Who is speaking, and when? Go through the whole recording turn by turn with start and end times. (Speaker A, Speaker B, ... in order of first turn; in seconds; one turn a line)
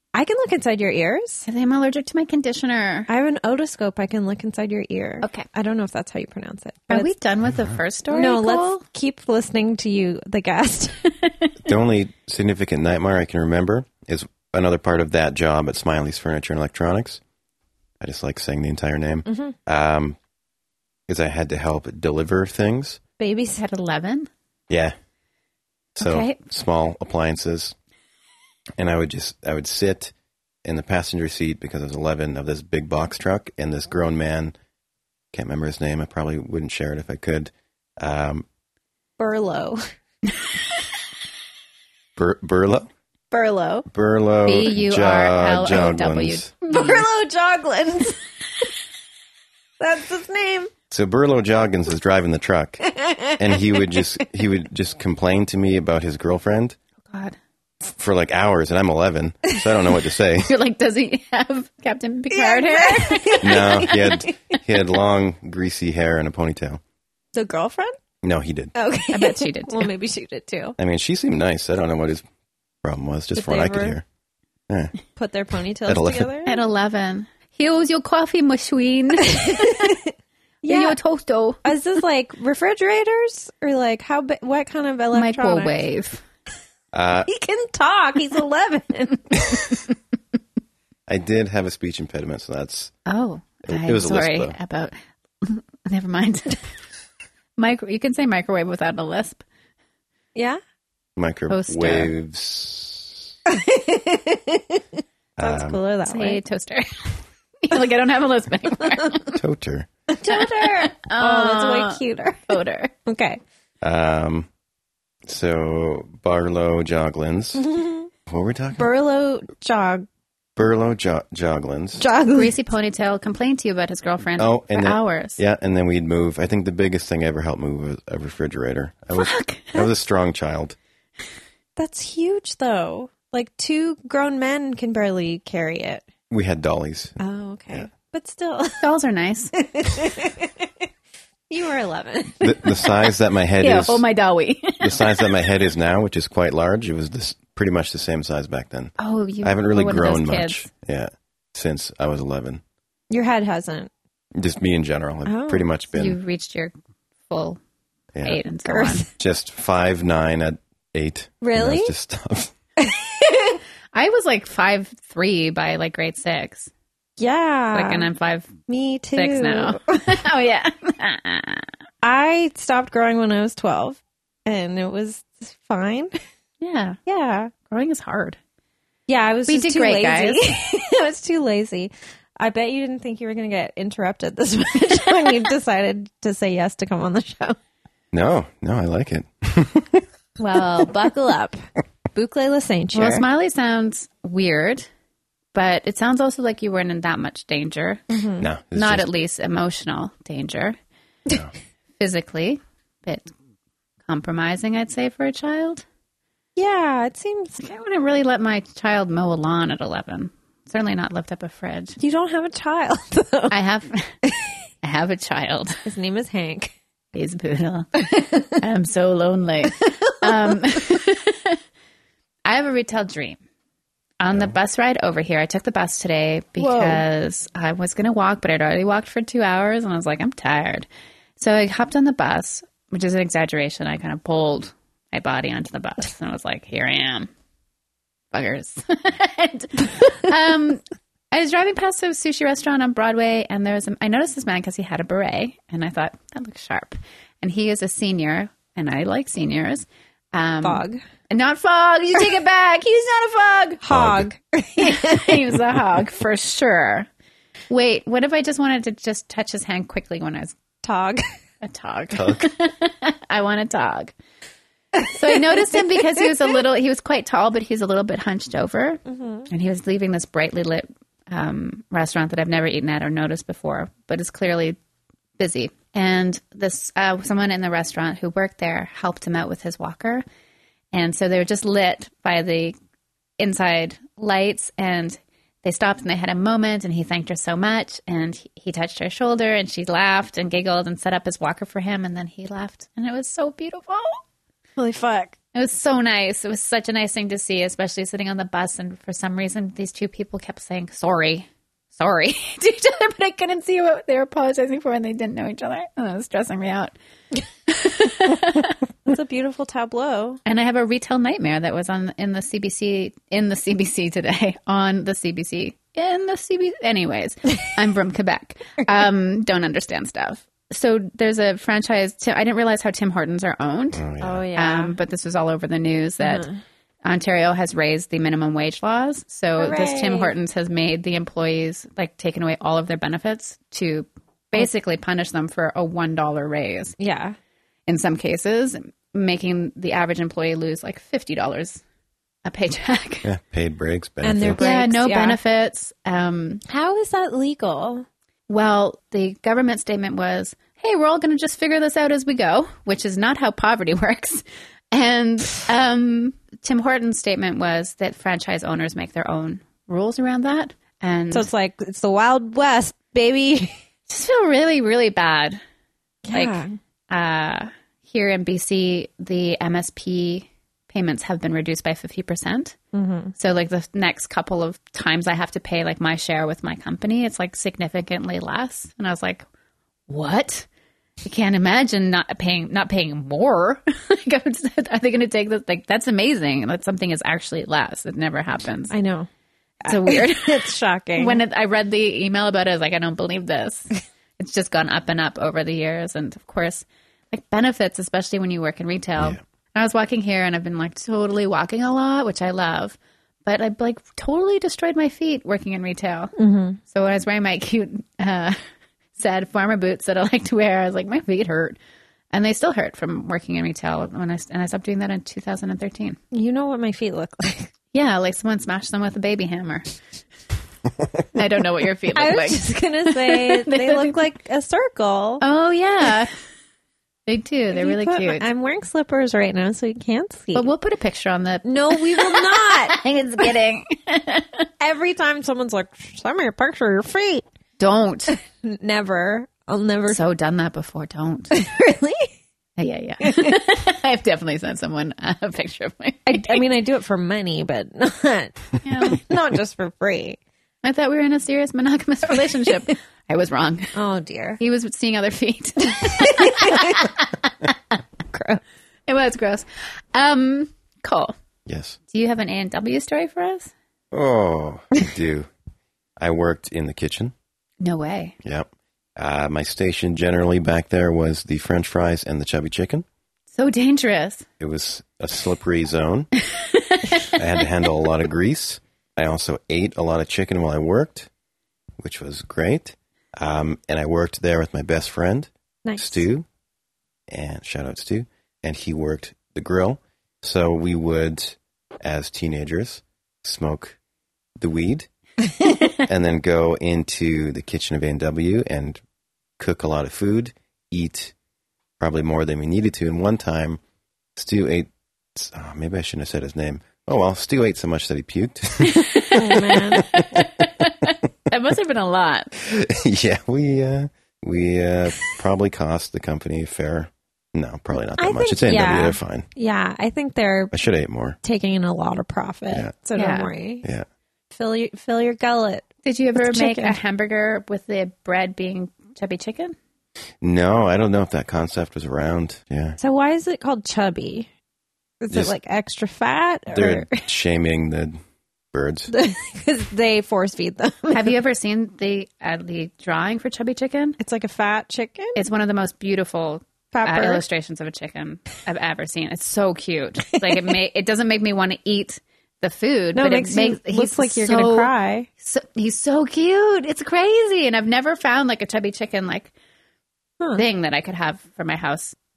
Speaker A: 0.1-1.5
Speaker B: 1.5-3.1
Speaker A: 3.1-7.1
Speaker B: 5.2-5.5
Speaker B: 6.9-8.7
Speaker A: 8.1-11.1
Speaker C: 11.6-17.2
Speaker C: 18.0-20.2
Speaker A: 19.2-19.5
Speaker C: 21.1-23.0
Speaker A: 23.2-23.6
Speaker B: 23.6-24.3
Speaker C: 24.7-24.9
Speaker B: 26.0-26.4
Speaker C: 26.0-27.8
Speaker C: 28.8-30.1
Speaker C: 30.6-34.5
Speaker C: 35.3-38.5
Speaker A: 39.2-39.9
Speaker C: 42.2-42.9
Speaker A: 43.3-43.9
Speaker C: 43.9-46.5
Speaker B: 44.5-47.0
Speaker A: 46.7-48.2
Speaker A: 49.8-50.7
Speaker C: 50.9-52.8
Speaker A: 52.9-54.0
Speaker C: 53.4-56.8
Speaker B: 57.1-57.4
Speaker C: 57.9-60.6
Speaker B: 60.4-64.2
Speaker A: 62.3-64.3
Speaker C: 63.4-66.8
Speaker A: 67.3-68.0
Speaker C: 68.2-68.7
Speaker A: 68.8-70.8
Speaker B: 69.1-69.9
Speaker C: 70.8-72.2
Speaker C: 72.8-74.0
Speaker A: 73.3-74.0
Speaker C: 74.7-75.0
Speaker A: 75.2-76.6
Speaker C: 75.9-76.3
Speaker B: 76.5-80.0
Speaker A: 79.2-80.1
Speaker A: 80.6-81.0
Speaker B: 80.7-81.6
Speaker A: 81.6-85.8
Speaker B: 85.1-86.2
Speaker C: 86.9-87.3
Speaker A: 87.2-89.4
Speaker C: 91.1-92.9
Speaker B: 93.0-96.7
Speaker C: 93.7-94.5
Speaker B: 97.6-99.4
Speaker A: 100.3-100.6
Speaker C: 101.2-103.3
Speaker B: 101.5-102.1
Speaker A: 103.5-104.8
Speaker C: 105.4-105.8
Speaker A: 105.4-106.4
Speaker B: 106.0-109.3
Speaker C: 109.3-109.9
Speaker A: 110.1-113.4
Speaker B: 110.2-112.9
Speaker C: 113.8-114.5
Speaker C: 115.2-117.7
Speaker A: 117.5-118.1
Speaker C: 118.3-118.9
Speaker A: 118.8-120.0
Speaker C: 120.5-122.0
Speaker A: 122.0-122.5
Speaker B: 122.3-125.4
Speaker C: 124.4-130.8
Speaker B: 129.1-129.9
Speaker A: 131.8-136.0
Speaker C: 136.3-137.2
Speaker A: 137.2-138.9
Speaker B: 138.8-139.5
Speaker A: 139.5-140.6
Speaker A: 141.5-142.8
Speaker C: 142.4-144.0
Speaker B: 143.6-145.3
Speaker C: 144.8-152.6
Speaker B: 149.0-150.7
Speaker A: 153.1-153.9
Speaker C: 154.3-156.2
Speaker A: 155.2-155.7
Speaker B: 155.9-156.7
Speaker B: 157.3-157.6
Speaker C: 158.2-158.4
Speaker B: 158.2-159.1
Speaker A: 158.7-159.1
Speaker C: 159.2-162.5
Speaker A: 161.4-161.9
Speaker A: 162.8-163.6
Speaker B: 163.9-166.7
Speaker A: 167.2-168.1
Speaker B: 167.7-168.5
Speaker A: 168.7-169.8
Speaker B: 169.2-171.7
Speaker A: 172.0-176.2
Speaker B: 176.6-177.0
Speaker A: 177.1-177.5
Speaker B: 177.7-178.4
Speaker A: 179.1-187.6
Speaker B: 179.5-180.5
Speaker C: 188.1-190.0
Speaker A: 190.4-191.6
Speaker A: 192.1-193.2
Speaker B: 192.9-194.9
Speaker B: 195.5-198.0
Speaker A: 198.1-198.5
Speaker C: 198.4-199.1
Speaker B: 198.7-200.8
Speaker B: 202.0-203.3
Speaker B: 204.1-205.8
Speaker A: 206.6-207.6
Speaker B: 207.6-212.0
Speaker A: 212.0-213.5
Speaker B: 213.5-214.2
Speaker B: 214.8-215.8
Speaker A: 215.8-216.8
Speaker B: 217.1-221.6
Speaker B: 222.4-223.4
Speaker B: 224.2-230.9
Speaker A: 226.6-227.0
Speaker B: 231.4-237.3
Speaker B: 238.3-253.8
Speaker A: 250.6-251.0
Speaker A: 253.8-255.3
Speaker C: 253.9-254.3
Speaker B: 254.8-257.1
Speaker B: 257.7-260.5
Speaker A: 260.8-261.2
Speaker B: 261.6-264.1
Speaker C: 262.1-262.5
Speaker B: 265.0-274.8
Speaker A: 269.1-269.5
Speaker B: 275.4-280.2
Speaker B: 280.9-282.8
Speaker B: 283.4-294.2
Speaker A: 294.8-295.3
Speaker B: 295.5-306.9
Speaker B: 307.7-308.8
Speaker A: 309.1-310.4
Speaker B: 310.5-326.5
Speaker C: 323.9-324.5
Speaker A: 324.2-325.0
Speaker A: 326.2-326.6
Speaker B: 327.0-337.0
Speaker A: 329.6-330.3
Speaker A: 337.0-337.4
Speaker B: 337.9-341.8
Speaker B: 342.4-343.3
Speaker C: 343.2-344.6
Speaker A: 344.2-345.4
Speaker B: 344.6-346.6
Speaker A: 346.7-348.1
Speaker B: 348.5-361.5
Speaker A: 361.3-363.8
Speaker B: 364.1-365.6
Speaker A: 366.2-366.8
Speaker B: 366.3-372.8
Speaker A: 372.9-373.3
Speaker B: 373.4-379.4
Speaker B: 380.1-380.7
Speaker B: 381.2-388.9
Speaker A: 388.9-389.3
Speaker A: 389.8-391.4
Speaker B: 389.9-390.6
Speaker B: 391.2-406.3
Speaker A: 406.4-406.8
Speaker B: 406.9-408.6
Speaker B: 409.2-411.8
Speaker B: 412.3-416.2
Speaker A: 416.3-417.7
Speaker B: 417.9-419.9
Speaker B: 421.3-424.2
Speaker A: 422.1-425.4
Speaker B: 425.4-426.3
Speaker B: 427.3-428.4
Speaker A: 427.7-430.7
Speaker B: 430.5-434.6
Speaker A: 431.6-433.0
Speaker A: 434.8-437.4
Speaker B: 437.8-438.3
Speaker A: 438.3-440.2
Speaker B: 440.1-441.5
Speaker A: 441.5-442.3
Speaker B: 442.8-446.6
Speaker A: 443.2-443.5
Speaker A: 446.2-450.4
Speaker B: 448.8-449.2
Speaker B: 450.8-453.9
Speaker A: 453.9-454.6
Speaker B: 454.6-457.3
Speaker A: 456.1-457.1
Speaker A: 458.3-458.6
Speaker B: 459.1-461.3
Speaker C: 461.7-462.0
Speaker B: 462.1-463.7
Speaker C: 464.1-465.5
Speaker C: 466.2-467.3
Speaker B: 467.8-468.4
Speaker C: 468.4-473.0
Speaker B: 473.5-474.5
Speaker C: 474.6-476.3
Speaker B: 476.5-477.3
Speaker C: 477.3-481.3
Speaker C: 482.0-486.5
Speaker A: 485.8-486.3
Speaker C: 487.3-494.0
Speaker C: 494.6-495.1
Speaker C: 496.0-499.0
Speaker C: 499.6-501.3
Speaker C: 502.0-503.8
Speaker C: 504.4-509.2
Speaker B: 508.9-512.5
Speaker A: 509.3-510.2
Speaker C: 512.6-519.5
Speaker A: 518.2-520.7
Speaker C: 520.7-521.4
Speaker A: 521.4-523.9
Speaker B: 523.1-523.5
Speaker A: 524.5-527.0
Speaker B: 526.0-529.8
Speaker C: 530.4-533.0
Speaker A: 533.0-534.5
Speaker A: 535.2-537.2
Speaker C: 536.7-538.2
Speaker C: 538.7-539.1
Speaker A: 539.1-541.3
Speaker B: 541.1-544.2
Speaker A: 544.2-545.4
Speaker B: 545.4-559.5
Speaker A: 546.9-547.4
Speaker A: 550.3-550.7
Speaker A: 553.1-555.3
Speaker B: 560.6-562.2